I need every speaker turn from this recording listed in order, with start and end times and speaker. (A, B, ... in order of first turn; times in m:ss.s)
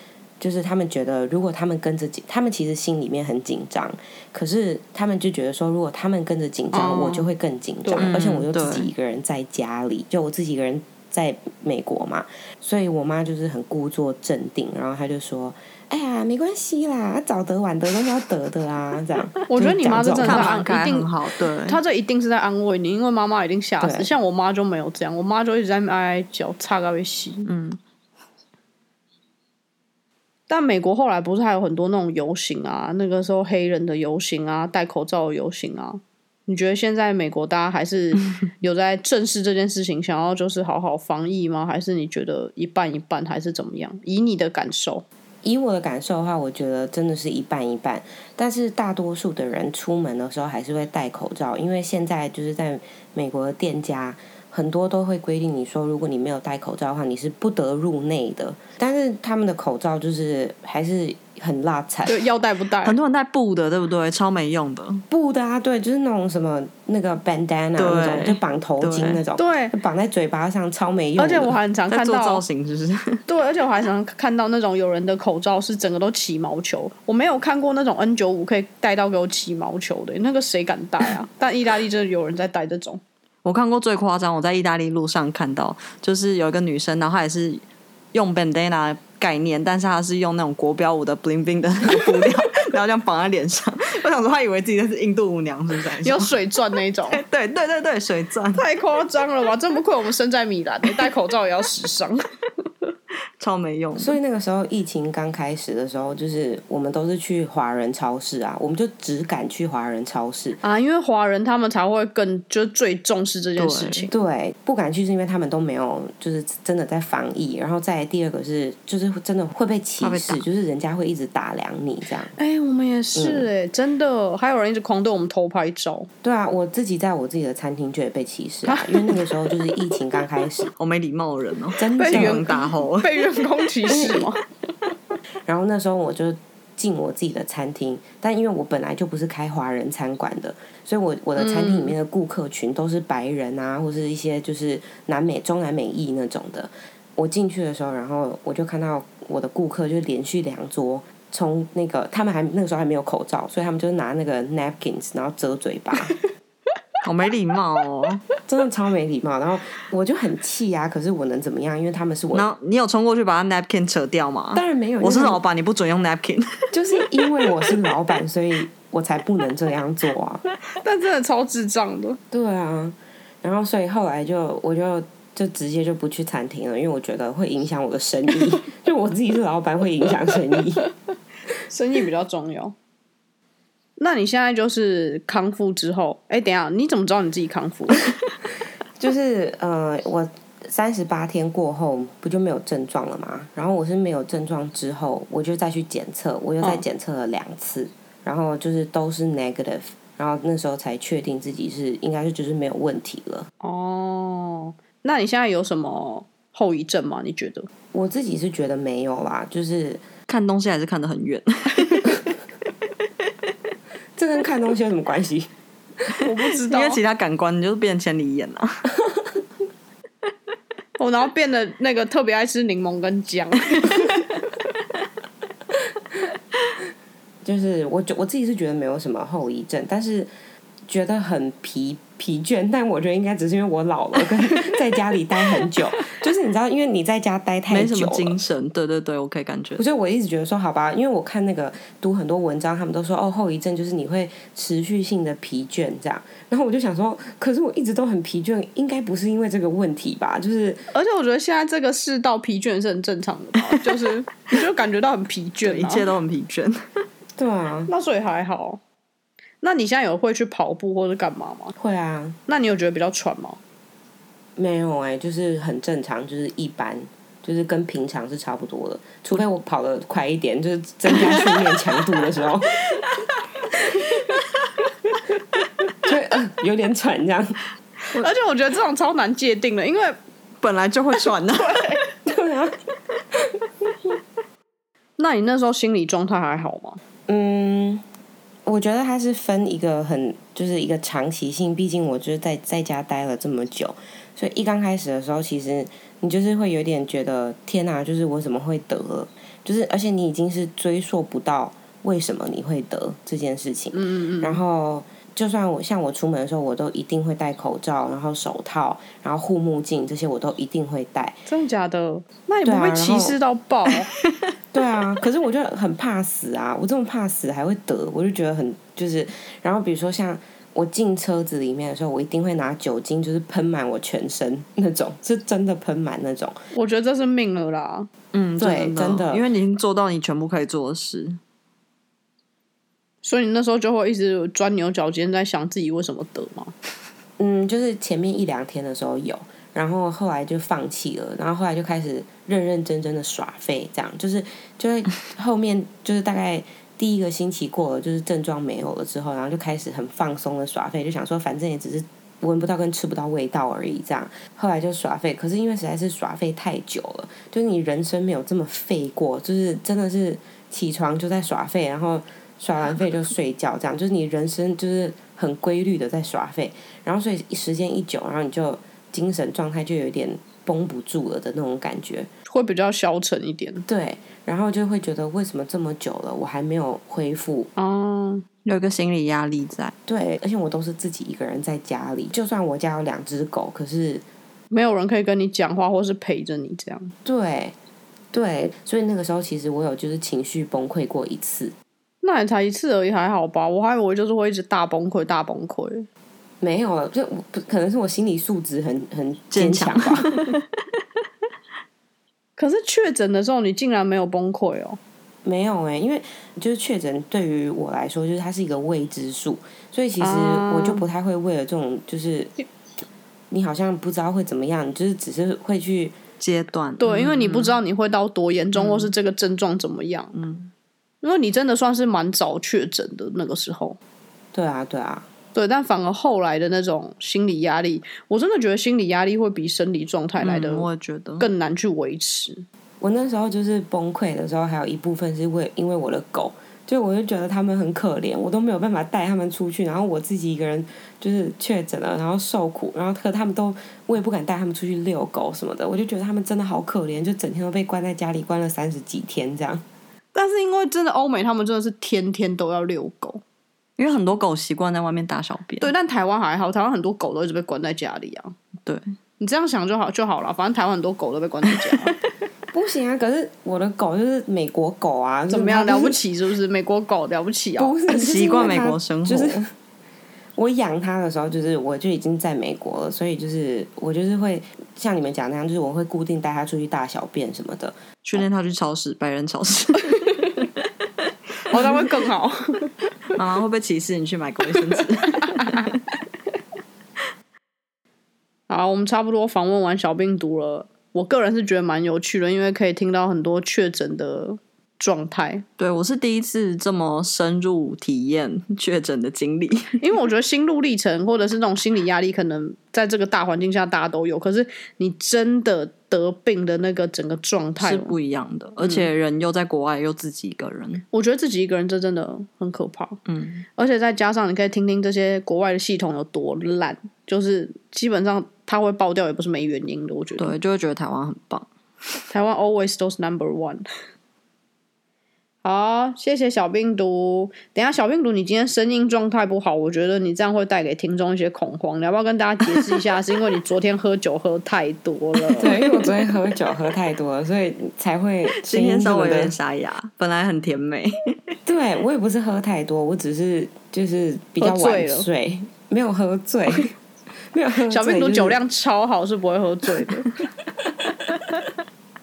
0:00.4-0:20.6 A
0:06.7-0:07.3 B
0:08.0-0:08.9 C
0:19.5-0:27.5 B
0:20.2-0:21.8 C
0:23.8-0:24.1 A
0:27.5-0:27.8 C
0:30.5-0:45.0 B
0:45.4-1:02.2 A
1:02.1-1:03.0 B
1:02.8-1:05.0 C
1:05.1-1:11.6 A
1:07.8-1:09.2 C
1:09.4-1:09.8 B
1:11.2-1:12.4 B
1:11.9-1:13.2 C
1:13.3-1:23.0 B
1:23.4-1:36.4 C
1:36.0-1:37.2 B
1:37.1-1:38.6 C
1:38.5-1:42.3 B
1:43.4-1:44.2 C
1:44.0-1:50.6 A
1:50.6-1:54.1 B
1:53.6-1:54.1 C
1:54.1-2:02.3 A
2:00.0-2:00.4 C
2:02.4-2:06.1 B
2:03.2-2:03.5 A
2:06.2-2:10.7 A
2:08.7-2:09.3 B
2:10.8-2:13.4 C
2:11.8-2:12.5 A
2:12.0-2:14.4 B
2:13.9-2:14.3 A
2:15.5-2:36.2 A
2:21.4-2:21.9 B
2:37.0-2:38.2 C
2:38.5-2:42.5 A
2:42.3-2:46.7 C
2:44.5-2:45.4 A
2:46.7-2:50.4 A
2:50.8-2:52.2 B
2:52.3-3:00.9 A
3:01.7-3:02.7 B
3:04.0-3:08.0 B
3:09.0-3:23.5 A
3:23.6-3:27.7 B
3:27.9-3:30.0 A
3:30.3-3:32.3 C
3:34.2-3:35.5 A
3:36.2-3:37.0 B
3:36.6-3:38.9 C
3:41.0-3:44.2 B
3:47.4-3:50.3 A
3:50.9-3:58.4 A
3:57.7-3:59.8 C
3:59.8-4:10.9 A
4:10.9-4:16.0 B
4:15.6-4:16.8 C
4:17.4-4:17.9 A
4:17.9-4:18.8 B
4:19.6-4:21.8 B
4:21.8-4:22.4 A
4:22.5-4:23.6 B
4:24.6-4:33.0 A
4:36.0-4:37.6 A
4:38.2-4:40.2 B
4:40.6-4:41.9 C
4:41.6-4:42.0 B
4:42.2-4:42.8 A
4:45.2-4:47.0 B
4:47.3-4:48.0 A
4:48.7-5:11.4 A
5:03.9-5:04.6 B
5:11.5-5:14.1 B
5:12.6-5:13.4 A
5:14.7-5:26.6 A
5:26.7-5:28.1 B
5:28.3-5:31.4 C
5:28.6-5:29.5 A
5:33.2-5:36.7 B
5:37.4-6:12.3 A
6:12.5-6:13.8 B
6:13.9-6:17.7 A
6:17.8-6:18.5 B
6:18.6-6:19.9 C
6:20.1-6:24.2 A
6:24.7-6:27.1 B
6:27.2-6:27.8 A
6:28.3-6:31.7 A
6:32.2-6:36.1 B
6:36.6-6:40.3 A
6:39.5-6:40.6 C
6:42.6-6:45.0 B
6:45.4-6:52.5 A
6:50.2-6:51.0 B
6:53.5-6:56.2 A
6:56.4-6:57.8 C
6:57.0-7:00.3 B
6:58.8-6:59.1 C
7:00.3-7:00.7 C
7:01.2-7:04.0 B
7:04.5-7:05.3 A
7:05.6-7:10.9 B
7:10.4-7:11.5 C
7:11.4-7:12.7 B
7:13.0-7:29.8 A
7:30.3-7:33.4 B
7:34.0-7:35.9 C
7:35.8-7:38.6 B
7:39.4-7:42.2 B
7:42.7-7:46.2 A
7:45.5-7:48.0 B
7:47.8-7:49.7 A
7:48.1-7:49.6 C
7:50.6-7:58.0 A
7:58.2-8:00.7 C
8:01.7-8:02.9 B
8:01.7-8:02.0 C
8:03.3-8:06.0 C
8:05.4-8:05.8 B
8:08.7-8:15.6 B
8:15.8-8:20.0 C
8:20.0-8:28.2 B
8:27.8-8:31.0 C
8:28.8-8:29.1 B
8:31.1-8:33.2 B
8:33.3-8:33.7 C
8:33.8-8:40.6 B
8:40.4-8:41.7 C
8:42.3-8:43.8 B
8:45.6-8:55.7 B
8:55.5-8:55.9 C
8:55.6-8:59.6 A
8:58.5-9:01.1 C
9:01.6-9:07.0 A
9:04.6-9:05.3 B
9:07.5-9:08.6 A
9:07.9-9:10.3 B